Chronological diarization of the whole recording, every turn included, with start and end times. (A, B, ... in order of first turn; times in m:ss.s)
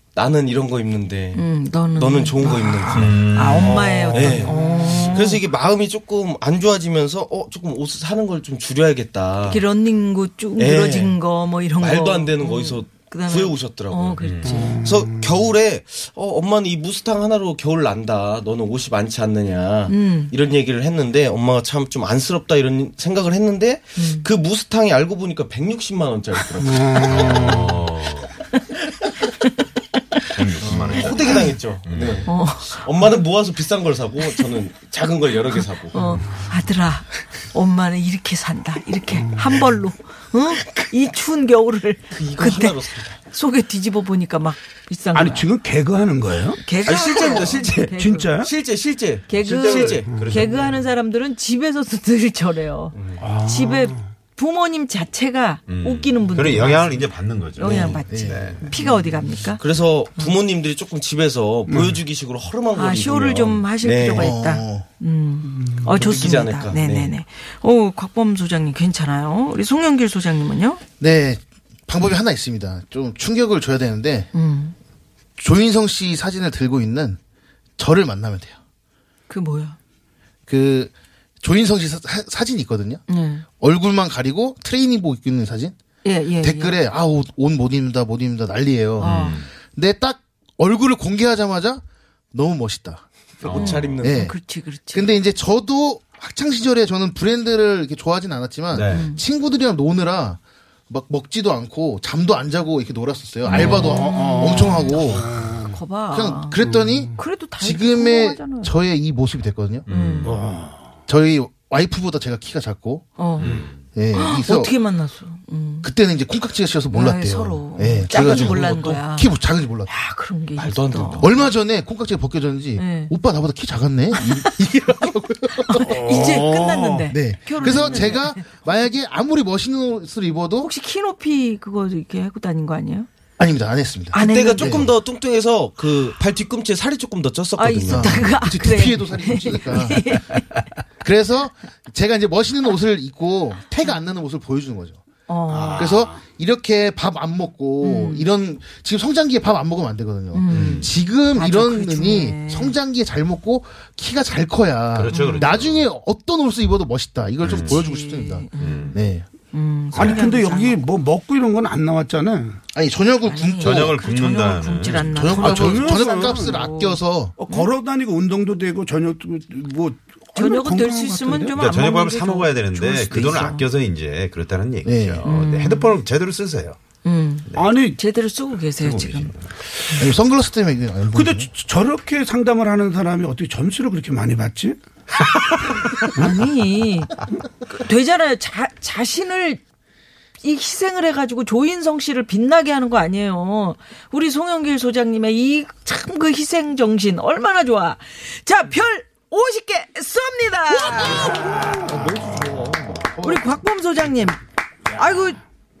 0:00.1-0:09.6 A
0:01.3-0:05.4 B
0:02.9-0:04.3 C
0:09.4-0:14.8 B
0:10.6-0:11.2 A
0:11.8-0:14.2 A
0:14.2-0:14.6 C
0:14.4-0:15.3 D
0:14.7-0:27.2 A
0:19.9-0:20.3 B
0:24.0-0:24.3 B
0:26.6-0:27.8 D
0:27.0-0:28.3 C
0:30.3-0:32.3 C
0:30.6-0:36.0 A
0:31.1-0:31.4 B
0:32.2-0:33.2 B
0:35.9-0:45.5 B
0:39.1-0:39.7 D
0:42.1-0:43.2 A
0:45.1-0:46.6 D
0:46.6-0:48.3 B
0:46.8-0:50.1 A
0:47.4-0:48.5 D
0:49.3-0:59.6 B
0:49.4-0:50.7 C
0:52.9-0:53.2 A
0:53.2-0:54.1 D
0:55.7-0:58.7 C
0:57.6-0:58.0 A
0:58.1-0:58.7 E
0:58.6-0:58.9 A
0:59.6-1:04.3 A
1:01.7-1:02.0 D
1:02.7-1:10.8 B
1:04.1-1:04.9 E
1:05.8-1:07.1 A
1:11.0-1:14.3 E
1:14.3-1:14.7 B
1:15.4-1:17.2 E
1:17.8-1:18.6 E
1:19.3-1:19.8 B
1:20.5-1:23.0 E
1:23.1-1:23.4 B
1:23.6-1:25.7 E
1:26.0-1:26.7 B
1:26.4-1:33.1 E
1:29.0-1:29.5 C
1:29.0-1:29.4 B
1:33.4-1:34.3 A
1:33.4-1:33.9 C
1:33.5-1:35.2 B
1:34.0-1:34.4 E
1:34.9-1:45.4 E
1:38.7-1:39.1 C
1:38.9-1:39.2 B
1:43.4-1:46.6 B
1:43.5-1:45.8 D
1:46.1-1:49.8 E
1:46.6-1:47.1 D
1:47.2-1:48.7 B
1:49.8-1:50.4 C
1:49.9-1:50.4 B
1:50.2-1:50.9 D
1:51.1-1:53.1 E
1:53.2-1:53.6 B
1:53.4-1:53.8 C
1:53.8-1:54.7 E
1:54.1-1:55.9 B
1:55.8-1:59.9 E
1:56.9-2:01.5 B
1:58.1-1:59.0 A
2:00.6-2:01.4 A
2:01.2-2:06.2 E
2:02.8-2:03.1 B
2:04.1-2:04.5 B
2:05.6-2:08.5 B
2:05.8-2:07.1 D
2:07.1-2:10.7 E
2:07.6-2:07.9 D
2:10.6-2:13.1 B
2:13.4-2:14.9 E
2:14.1-2:14.8 B
2:14.2-2:18.3 A
2:17.6-2:20.6 B
2:17.9-2:20.1 E
2:21.0-2:25.0 E
2:25.3-2:26.0 B
2:25.5-2:26.2 D
2:25.8-2:39.2 E
2:27.8-2:28.3 B
2:30.3-2:32.8 B
2:30.5-2:30.9 C
2:34.9-2:35.9 C
2:35.1-2:35.5 B
2:37.4-2:37.8 C
2:37.5-2:39.0 B
2:38.6-2:39.0 C
2:39.5-2:40.8 B
2:39.9-2:42.6 D
2:42.7-2:44.0 E
2:43.2-2:47.7 B
2:43.6-2:45.2 C
2:45.0-2:47.4 E
2:45.4-2:46.6 D
2:47.4-2:51.6 D
2:50.3-2:53.6 B
2:51.6-2:56.8 C
2:52.8-2:53.4 D
2:54.8-2:55.2 E
2:55.2-2:56.0 B
2:57.0-2:59.3 B
2:57.5-2:58.0 D
2:58.8-2:59.5 C
2:59.9-3:01.5 E
3:01.1-3:04.8 D
3:06.0-3:06.4 D
3:06.1-3:07.1 B
3:07.7-3:09.6 B
3:10.4-3:21.4 B
3:21.0-3:23.6 E
3:23.2-3:25.4 B